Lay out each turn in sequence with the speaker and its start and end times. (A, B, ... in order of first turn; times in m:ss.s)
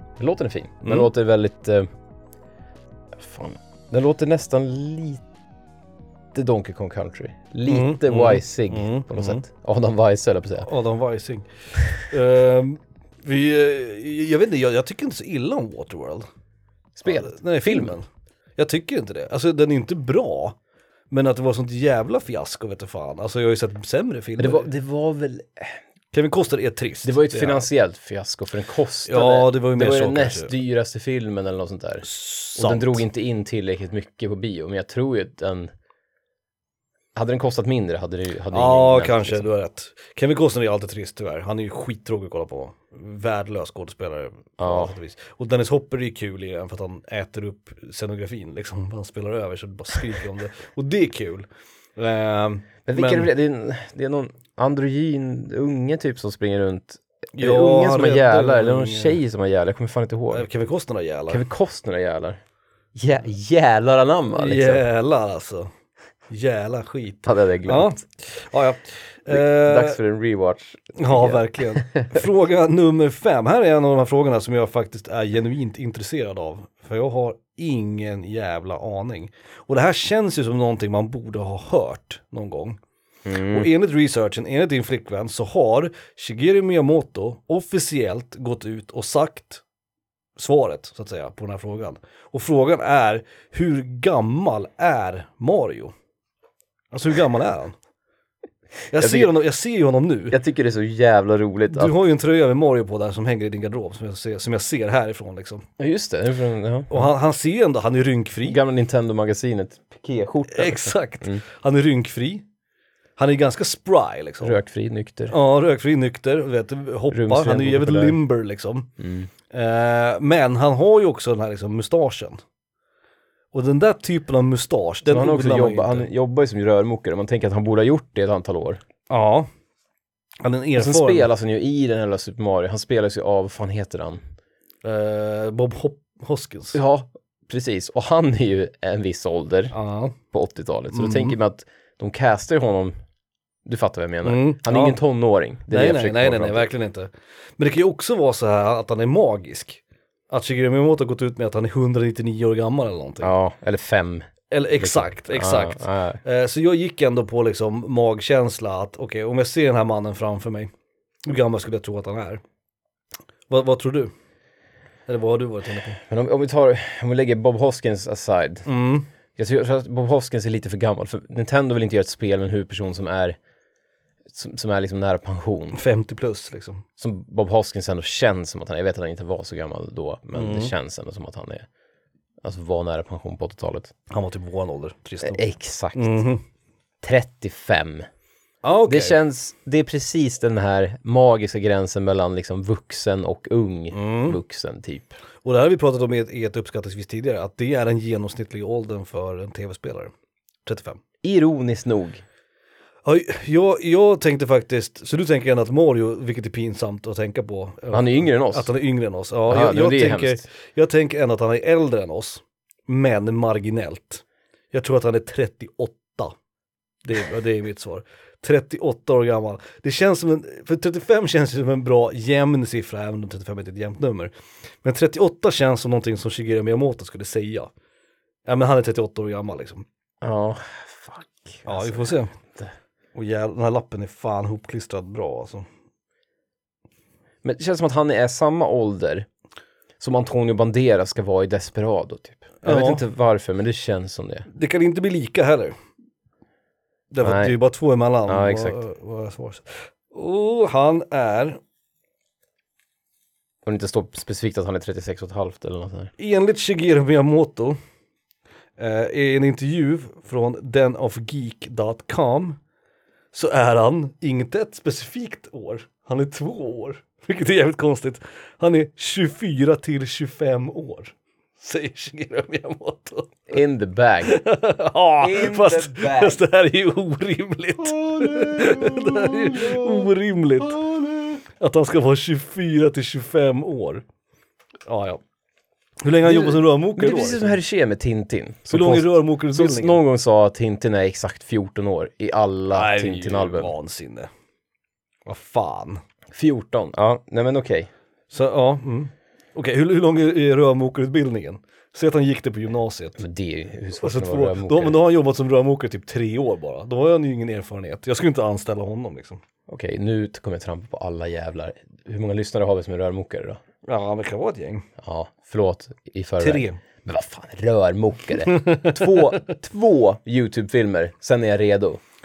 0:00.2-0:01.9 A
0:00.8-0:01.1 B
0:03.2-0:05.2 A
0:06.3-0:10.7 A
0:07.7-0:09.4 B
0:10.6-0:16.2 B
0:17.0-0:17.9 A
0:17.1-0:18.0 B
0:18.6-0:20.6 B
0:21.1-0:24.7 B
0:24.4-0:25.8 A
0:26.1-0:27.6 B
0:27.0-0:35.7 A
0:29.0-0:30.5 B
0:32.0-0:33.0 B
0:37.1-0:39.5 A
0:38.5-0:53.3 B
0:44.6-0:44.9 A
0:52.9-1:00.5 A
0:57.3-0:59.2 B
1:00.3-1:01.4 B
1:01.3-1:02.4 A
1:02.9-1:04.8 A
1:04.3-1:05.7 B
1:06.3-1:10.0 B
1:07.2-1:08.0 A
1:09.3-1:12.2 A
1:11.0-1:22.8 B
1:23.2-1:23.7 A
1:23.5-1:29.6 B
1:30.4-1:35.9 B
1:36.9-1:37.8 B
1:38.9-1:40.4 B
1:39.0-1:39.3 A
1:40.3-1:41.9 A
1:41.7-1:45.6 B
1:45.8-1:47.1 A
1:46.9-1:48.6 B
1:48.4-1:51.4 A
1:50.5-1:52.4 B
1:53.2-1:54.6 B
1:54.4-1:55.3 A
1:55.3-1:58.9 B
1:57.1-1:58.2 A
1:59.0-1:59.3 A
1:59.5-2:02.4 B
2:03.5-2:06.1 B
2:05.0-2:08.8 A
2:09.1-2:09.5 B
2:10.4-2:11.3 B
2:10.8-2:14.2 A
2:14.8-2:16.8 B
2:16.7-2:19.7 A
2:19.7-2:20.2 B
2:20.3-2:22.9 A
2:20.9-2:21.4 B
2:23.6-2:26.7 A
2:24.2-2:25.0 B
2:25.7-2:33.3 B
2:33.2-2:36.2 A
2:34.5-2:40.7 B
2:41.2-2:42.4 B
2:43.5-2:44.1 B
2:45.1-2:46.0 B
2:46.0-2:48.6 A
2:48.6-2:49.1 B
2:49.4-2:53.4 A
2:54.3-2:55.8 A
2:55.7-2:56.8 B
2:57.0-3:01.7 A
3:00.3-3:00.7 B
3:02.4-3:03.9 A
3:04.1-3:05.4 B
3:05.2-3:06.2 A
3:05.9-3:06.4 B
3:07.0-3:08.0 A
3:08.6-3:09.2 B
3:08.9-3:15.1 A
3:13.9-3:14.4 B
3:15.4-3:20.1 B
3:20.6-3:21.0 B
3:21.2-3:22.2 A
3:23.0-3:36.3 B
3:27.9-3:28.7 A
3:29.5-3:30.4 A
3:37.0-3:47.7 B
3:48.4-3:49.8 B
3:50.2-3:52.7 A
3:51.6-3:52.3 B
3:53.1-3:55.7 B
3:57.4-3:59.3 A
4:00.0-4:04.5 A
4:02.6-4:03.0 B
4:04.5-4:05.7 B
4:07.1-4:11.6 B
4:07.2-4:07.5 A
4:08.3-4:08.8 A
4:13.6-4:16.1 A
4:16.2-4:17.8 B
4:18.8-4:22.6 B
4:23.3-4:33.3 B
4:33.5-4:34.4 A
4:34.2-4:40.8 B
4:35.2-4:36.4 A
4:37.8-4:40.1 A
4:40.6-4:41.4 A
4:41.5-4:44.0 B
4:44.9-4:45.2 B
4:46.0-4:47.6 B
4:46.2-4:53.7 A
4:48.7-4:50.0 B
4:52.7-4:54.3 B
4:55.2-4:56.0 B
4:56.3-4:57.9 A
4:58.3-5:03.2 B
5:03.2-5:05.0 A
5:04.0-5:09.4 B
5:09.7-5:13.6 A
5:13.8-5:14.9 B
5:15.0-5:22.0 A
5:16.4-5:16.8 B
5:18.5-5:19.3 B